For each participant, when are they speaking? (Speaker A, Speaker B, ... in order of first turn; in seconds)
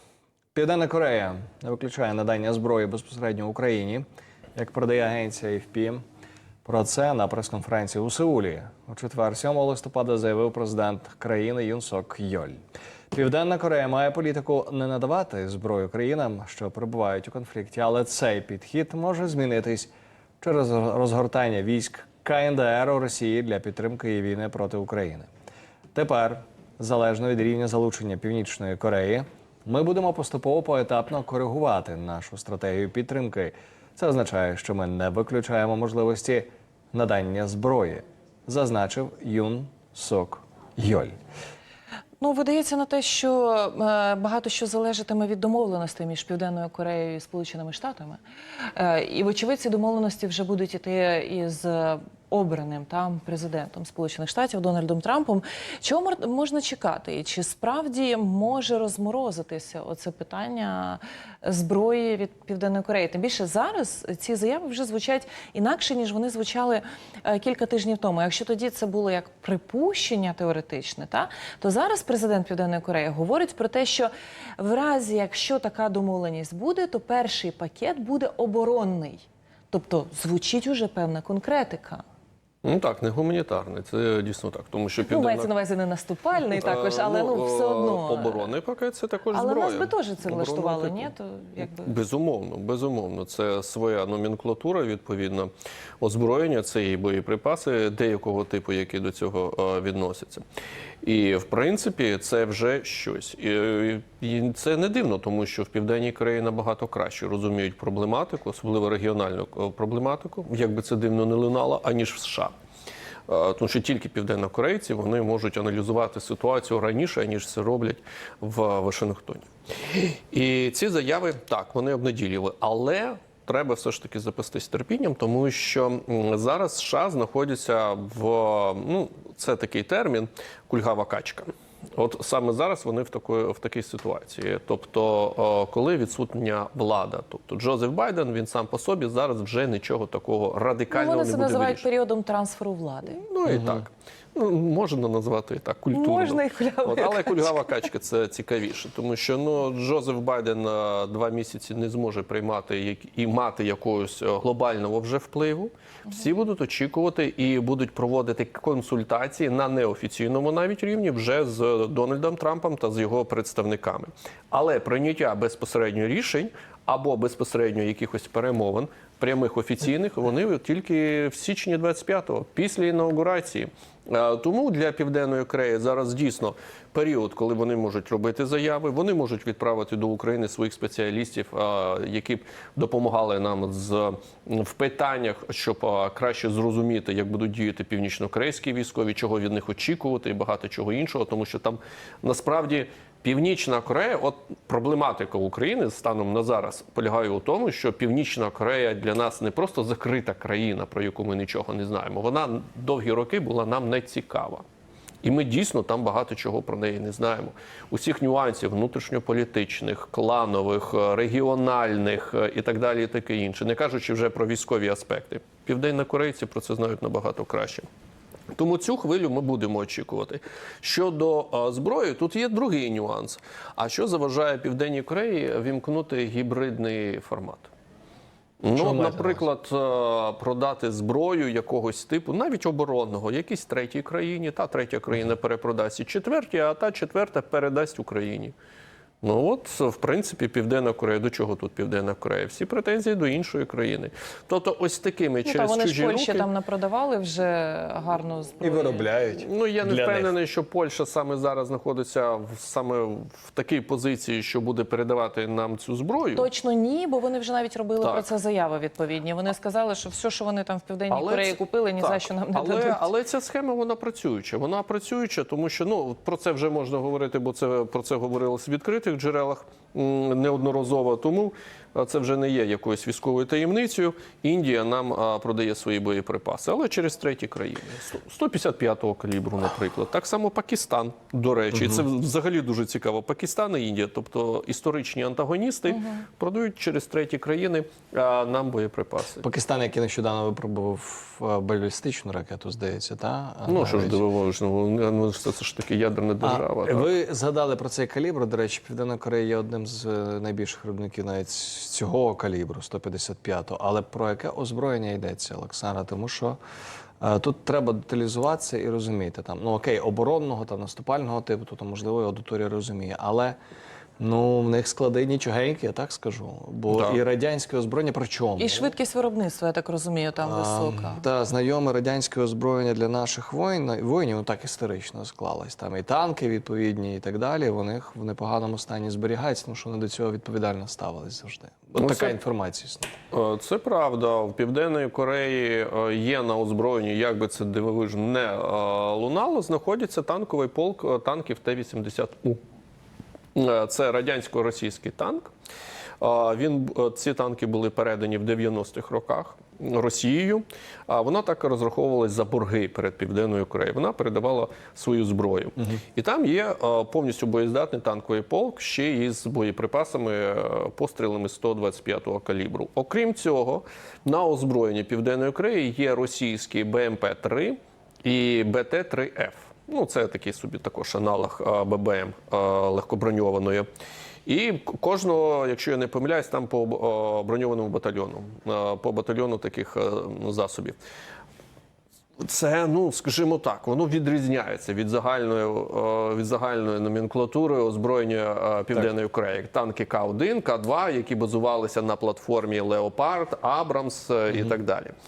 Speaker A: 0.5-6.0, 6.6-12.6, 13.1-25.3, 25.9-41.1, 143.5-143.8, 228.7-229.5, 248.6-250.3, 281.7-282.0, 289.4-294.2, 296.4-306.6, 307.2-313.6, 314.2-318.9, 320.4-333.1
Speaker B: 42.2-48.2, 48.7-66.8, 67.3-82.0, 85.0-88.5, 89.3-91.9, 140.9-143.2, 145.9-147.8, 245.4-249.1, 256.3-263.1, 318.6-321.2
Speaker C: 82.6-85.5, 86.4-95.5, 96.0-100.4, 101.0-112.5, 113.3-141.9, 143.1-204.6, 205.2-217.9, 218.6-227.7, 228.6-238.6, 239.2-246.5, 249.3-256.5, 258.0-258.3, 261.1-289.4, 293.7-297.1, 316.9-317.2, 332.0-332.4, 333.3-342.6, 343.6-345.5, 346.2-373.9, 374.5-381.0, 382.4-395.1